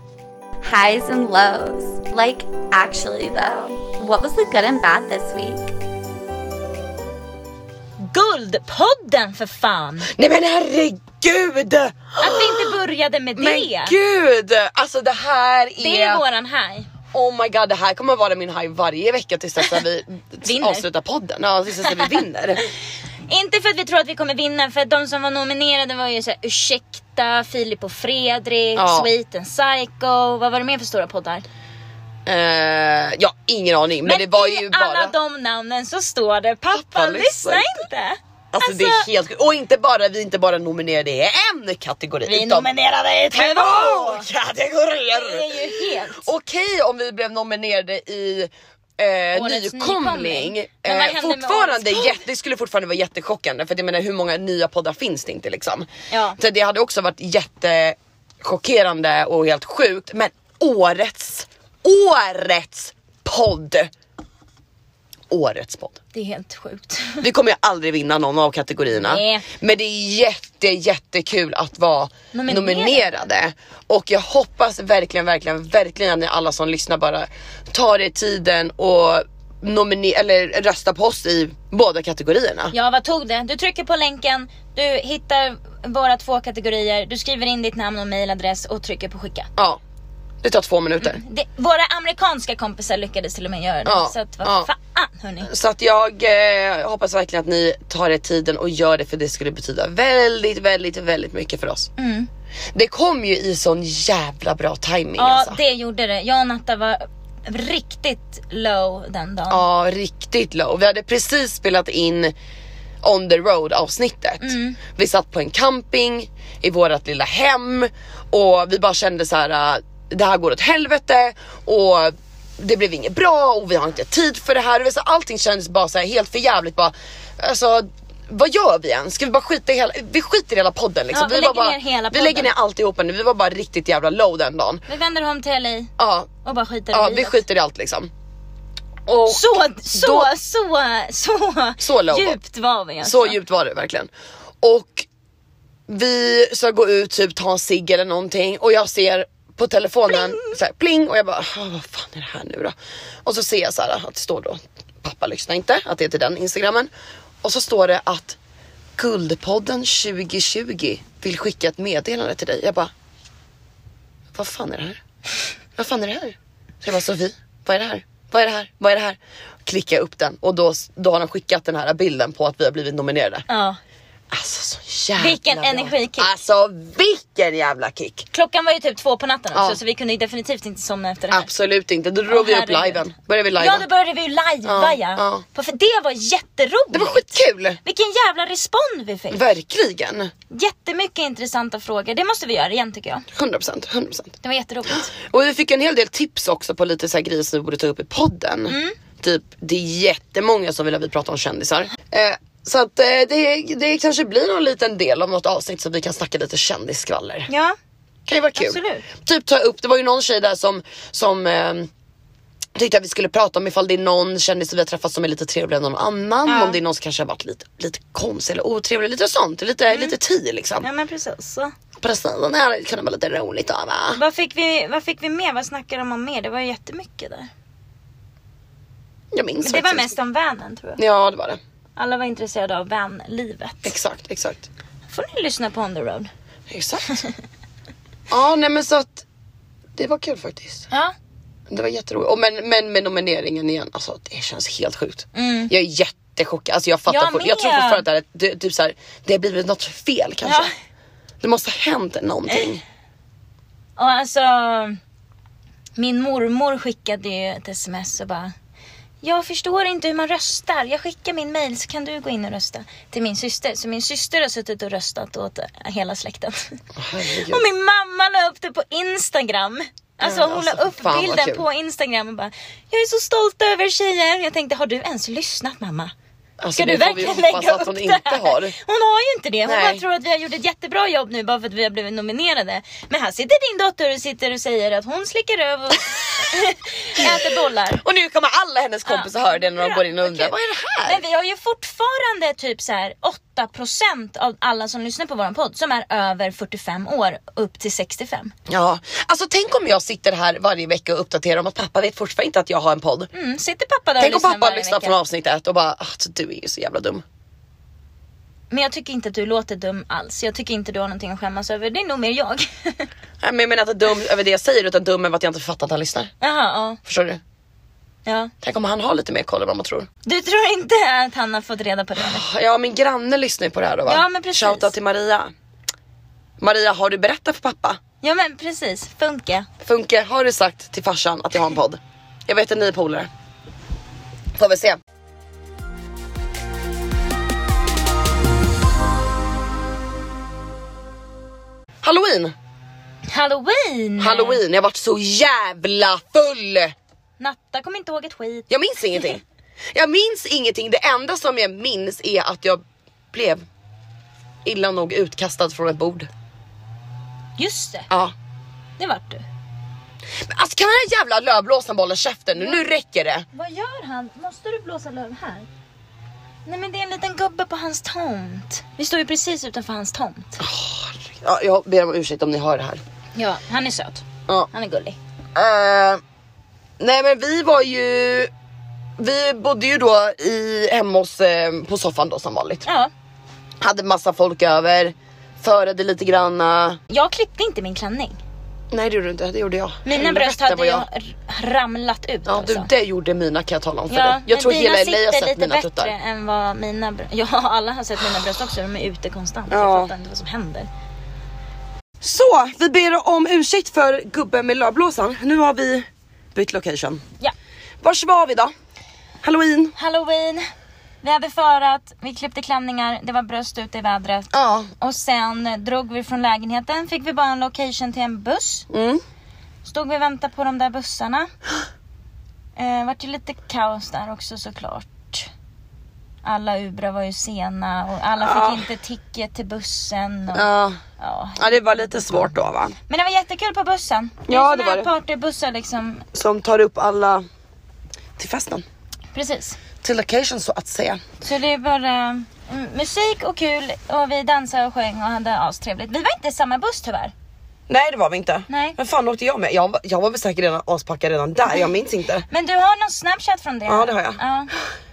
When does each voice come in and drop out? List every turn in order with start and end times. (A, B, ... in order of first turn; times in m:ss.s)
0:00.6-0:05.7 A
0:08.0-0:10.1 B
0:10.1-0:12.7 C
0:12.2-0:14.0 B
0:13.4-0:16.2 C
0:15.8-0:16.9 B
0:17.1-0:22.7 C
0:20.4-0:20.8 B
0:21.8-0:22.2 B
0:23.3-0:31.4 B
0:28.8-0:29.1 C
0:32.2-0:35.1 C
0:34.0-0:39.1 B
0:36.7-0:37.7 C
0:38.5-0:42.7 C
0:42.2-0:44.3 B
0:43.3-1:03.9 C
0:45.1-0:46.3 B
0:49.3-0:52.2 B
0:56.1-0:56.4 B
1:05.3-1:06.0 C
1:06.1-1:07.2 B
1:07.2-1:22.7 C
1:09.0-1:09.4 B
1:12.3-1:13.0 B
1:22.7-1:29.5 B
1:30.4-1:31.2 C
1:31.0-1:35.5 B
1:33.8-1:34.7 C
1:35.4-1:41.9 C
1:42.0-1:42.3 B
1:42.7-1:45.6 C
1:45.2-1:49.6 B
1:49.5-1:52.3 C
1:53.0-2:14.8 C
1:54.4-1:54.8 B
2:11.1-2:12.5 B
2:14.9-2:15.9 B
2:16.0-2:16.3 C
2:16.4-2:17.4 B
2:16.9-2:18.1 C
2:19.1-2:20.3 C
2:19.3-2:23.4 B
2:21.8-2:22.4 C
2:23.0-2:24.1 C
2:24.6-2:25.1 C
2:25.9-2:32.7 C
2:30.1-2:30.5 B
2:33.2-2:36.9 C
2:37.4-2:38.4 C
2:39.0-2:42.9 C
2:44.3-2:45.0 C
2:45.8-2:53.4 C
2:53.5-2:53.8 B
2:54.3-2:58.3 C
2:55.2-2:56.4 B
2:58.3-3:01.5 B
2:59.5-2:59.8 C
3:01.3-3:03.8 C
3:02.3-3:09.4 B
3:04.6-3:05.4 C
3:06.9-3:07.8 C
3:09.3-3:10.3 C
3:10.5-3:13.2 B
3:13.3-3:14.4 C
3:14.4-3:15.1 B
3:15.1-3:27.5 C
3:18.7-3:19.0 B
3:27.5-3:27.8 B
3:28.3-3:31.9 C
3:28.5-3:29.0 B
3:32.8-3:40.9 C
3:36.4-3:36.8 B
3:39.9-3:40.2 B
3:40.8-3:41.7 B
3:42.0-3:44.2 C
3:44.1-3:47.5 B
3:49.3-3:50.2 C
3:49.6-3:51.0 B
3:51.0-3:51.6 C
3:52.0-3:53.9 B
3:53.8-3:54.7 C
3:55.1-3:56.3 B
3:56.7-3:57.1 C
3:58.3-3:59.2 C
4:00.0-4:00.9 C
4:01.7-4:10.7 C
4:05.3-4:05.7 B
4:07.1-4:08.0 B
4:10.4-4:10.7 B
4:11.4-4:12.8 C
4:14.0-4:15.0 B
4:16.0-4:18.5 B
4:19.2-4:36.1 B
4:27.0-4:27.6 C
4:30.2-4:31.6 C
4:36.6-4:38.7 C
4:36.8-4:48.0 B
4:39.6-4:40.0 C
4:47.9-4:51.2 C
4:49.0-4:50.5 B
4:51.0-4:58.5 B
4:58.7-5:03.3 C
5:03.3-5:05.2 B
5:04.2-5:07.2 C
5:08.7-5:13.1 B
5:13.4-5:16.3 C
5:16.4-5:17.0 B
5:17.0-5:17.4 C
5:18.2-5:18.5 B
5:18.6-5:20.1 C
5:20.2-5:22.4 B
5:22.2-5:25.5 C
5:24.0-5:24.9 B
5:26.6-5:28.0 C
5:28.2-5:29.7 B
5:29.8-5:33.3 C
5:34.6-5:35.0 C
5:42.0-5:42.5 C
5:43.2-5:44.6 B
5:44.2-5:46.9 C
5:47.4-5:49.4 B
5:48.7-5:49.4 C
5:49.9-5:53.6 C
5:54.6-5:56.3 C
5:57.6-5:58.1 B
5:59.0-5:59.4 B
6:00.4-6:03.5 C
6:03.5-6:05.7 B
6:06.6-6:10.6 B
6:10.6-6:13.0 C
6:13.3-6:15.2 B
6:15.5-6:16.2 C
6:17.0-6:18.5 C
6:19.2-6:22.8 C
6:22.8-6:23.1 B
6:23.8-6:27.0 C
6:27.1-6:28.4 B
6:28.9-6:31.0 C
6:30.0-6:32.9 B
6:32.5-6:36.1 C
6:34.1-6:40.9 B
6:39.7-6:40.1 C
6:42.2-6:47.2 C
6:48.0-6:48.7 C
6:49.4-6:49.9 C
6:50.0-6:50.7 B
6:51.2-6:58.9 B
6:54.5-6:54.9 C
6:58.9-6:59.2 C
6:59.8-7:01.5 B
7:02.8-7:05.5 B
7:06.4-7:10.7 B
7:08.4-7:08.8 C
7:10.5-7:11.0 C
7:11.2-7:12.5 B
7:11.6-7:13.0 C
7:13.1-7:16.2 B
7:14.5-7:15.1 C
7:16.3-7:17.4 C
7:18.4-7:18.8 C
7:19.3-7:19.8 B
7:20.0-7:21.2 C
7:21.4-7:27.3 B
7:27.9-7:32.4 C
7:28.7-7:29.0 B
7:32.5-7:34.7 B
7:33.9-7:34.4 C